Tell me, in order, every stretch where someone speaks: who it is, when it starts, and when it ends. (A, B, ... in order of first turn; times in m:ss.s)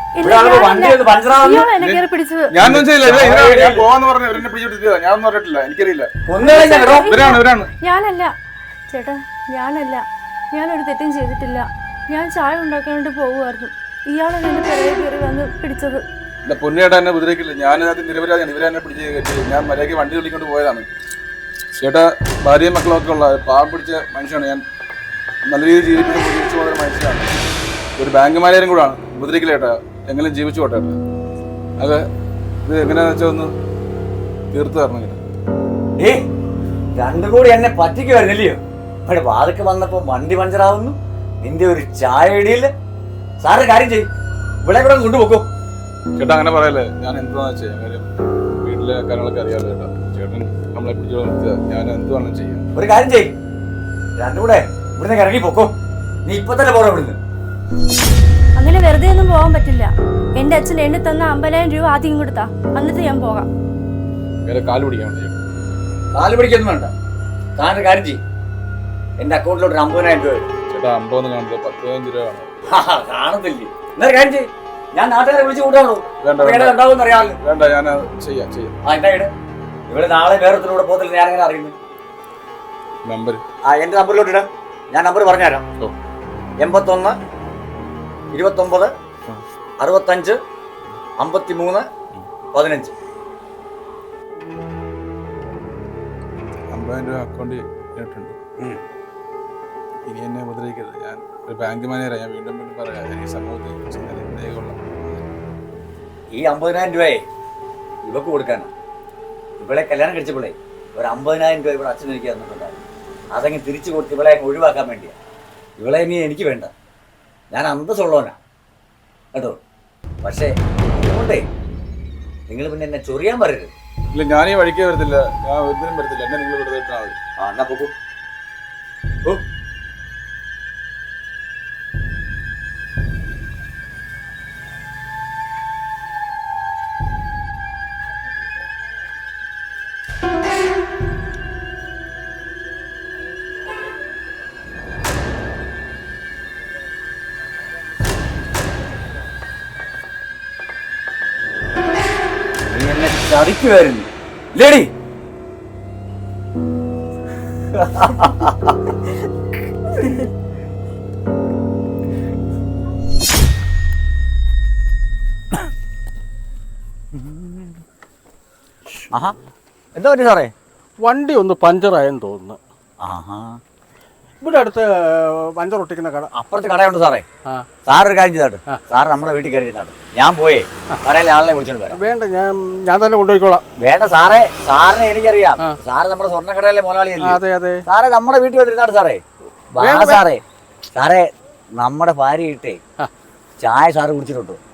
0:00.1-0:02.5 A
0:00.2-0:01.7 B
0:01.8-0:06.1 C
0:02.6-0:03.9 B
0:06.2-0:07.1 B
0:06.4-0:08.3 A
0:07.0-0:07.7 C
0:08.9-0:16.0 A
0:16.4-0:20.9 C
0:21.8-0:24.6 C
0:25.4-0:27.3 C
0:28.0-0:31.0 C
0:31.8-0:32.0 C
0:32.6-0:33.5 C
0:34.5-0:35.2 C
0:36.0-0:36.2 B
0:36.9-0:42.7 B
0:43.4-0:44.1 B
0:44.6-0:45.4 B
0:46.2-0:52.7 C
0:52.7-0:53.3 B
0:54.2-0:55.7 B
0:56.2-0:57.2 B
0:58.6-1:03.5 A
1:04.4-1:05.4 C
1:06.1-1:06.9 B
1:07.6-1:08.2 B
1:09.2-1:10.5 B
1:10.7-1:12.5 C
1:12.7-1:17.4 B
1:16.2-1:16.8 C
1:17.4-1:18.7 C
1:18.8-1:19.3 B
1:19.9-1:21.8 B
1:23.0-1:23.4 C
1:23.6-1:25.6 B
1:26.6-1:27.2 B
1:28.3-1:28.9 B
1:29.8-1:30.4 B
1:31.2-1:31.8 B
1:32.5-1:32.9 B
1:36.7-1:38.4 C
1:40.0-1:45.2 C
1:46.3-1:47.2 B
1:48.0-1:48.7 B
1:49.6-1:52.8 B
1:53.3-1:55.2 B
1:55.8-1:56.7 B
1:57.5-1:58.4 B
1:59.3-1:59.6 B
2:00.2-2:01.4 B
2:02.5-2:03.7 B
2:04.1-2:07.2 C
2:07.4-2:07.9 B
2:32.7-2:34.9 B
2:37.7-2:38.9 B
2:47.1-2:47.8 B
2:49.9-2:50.5 B
2:51.0-2:52.6 D
2:53.0-2:53.6 B
2:54.4-2:56.3 D
2:56.3-2:57.2 B
2:57.8-3:02.0 B
3:01.9-3:03.6 D
3:03.8-3:09.2 B
3:07.2-3:07.8 D
3:09.7-3:10.4 B
3:09.8-3:10.2 D
3:10.9-3:12.8 B
3:13.6-3:14.6 B